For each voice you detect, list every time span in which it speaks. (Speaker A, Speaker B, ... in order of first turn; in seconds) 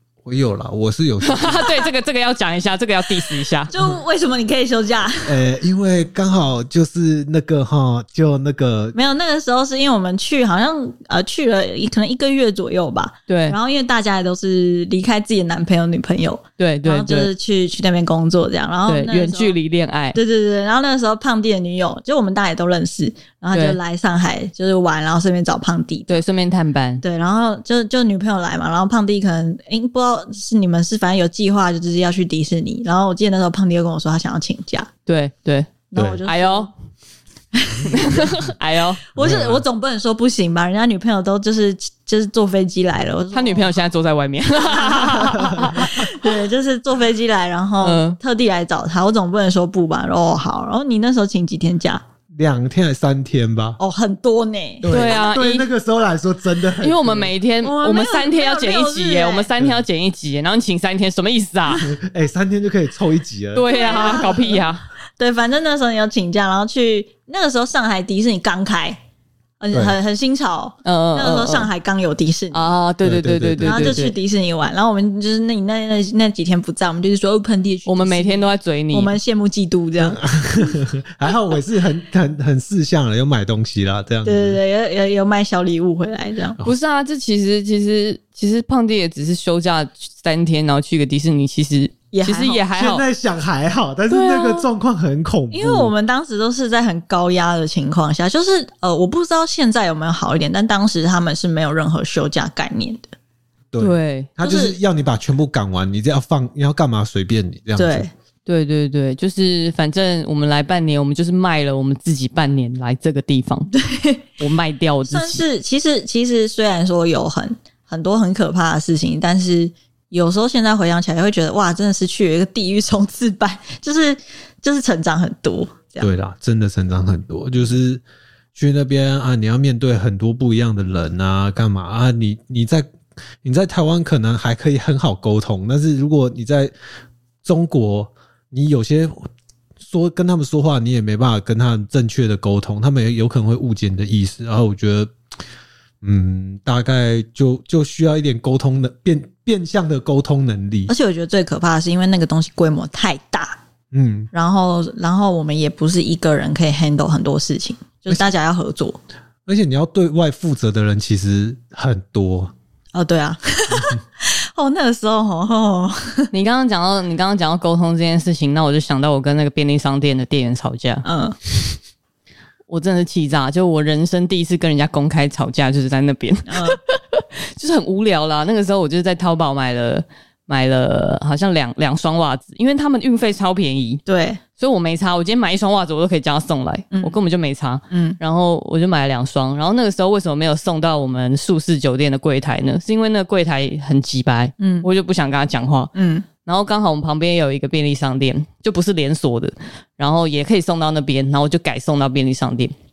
Speaker A: 0.2-1.7, 5.3-9.0, 36.0-36.2, 39.2-39.6, 45.2-45.9, 52.3-53.8, 54.8-57.3, 61.8-64.4, 69.7-70.0, 73.0-74.0, 80.0-84.6, 92.7-95.9, 103.7-108.1, 126.0-128.0, 128.6-132.9, 133.4-136.7, 137.4-139.3, 139.8-145.1, 146.0-150.9, 153.9-154.3, 159.5-162.5
Speaker B: 1.2-3.7, 13.3-13.6, 16.6-17.3, 18.9-20.2, 23.5-23.8, 26.1-27.0, 35.1-36.7, 37.9-39.1, 43.3-46.1, 47.8-48.2, 54.9-55.7, 56.8-61.9, 63.5-64.9, 70.8-71.7, 72.5-74.2, 77.9-79.2, 86.6-93.0, 94.1-94.7, 103.8-104.3, 108.5-113.7, 114.4-115.4, 166.3-171.1, 172.7-184.0, 184.6-195.9, 196.4-202.7
Speaker C: 3.7-5.4, 8.9-19.6, 20.1-26.2, 27.0-34.9, 35.9-36.7, 37.5-38.2, 39.1-43.8, 44.6-52.0, 53.8-55.1, 57.6-59.5, 63.6-64.7, 65.2-69.0, 69.6-72.7, 73.6-80.8, 84.2-86.6, 92.1-92.6, 95.5-103.1, 104.4-104.8, 107.8-108.1, 113.7-114.3, 115.1-126.1, 150.9-153.6, 154.3-159.0, 162.9-166.3, 171.1-171.4, 176.5-176.8, 184.1-184.4, 187.9-188.2, 194.6-194.9, 195.9-196.3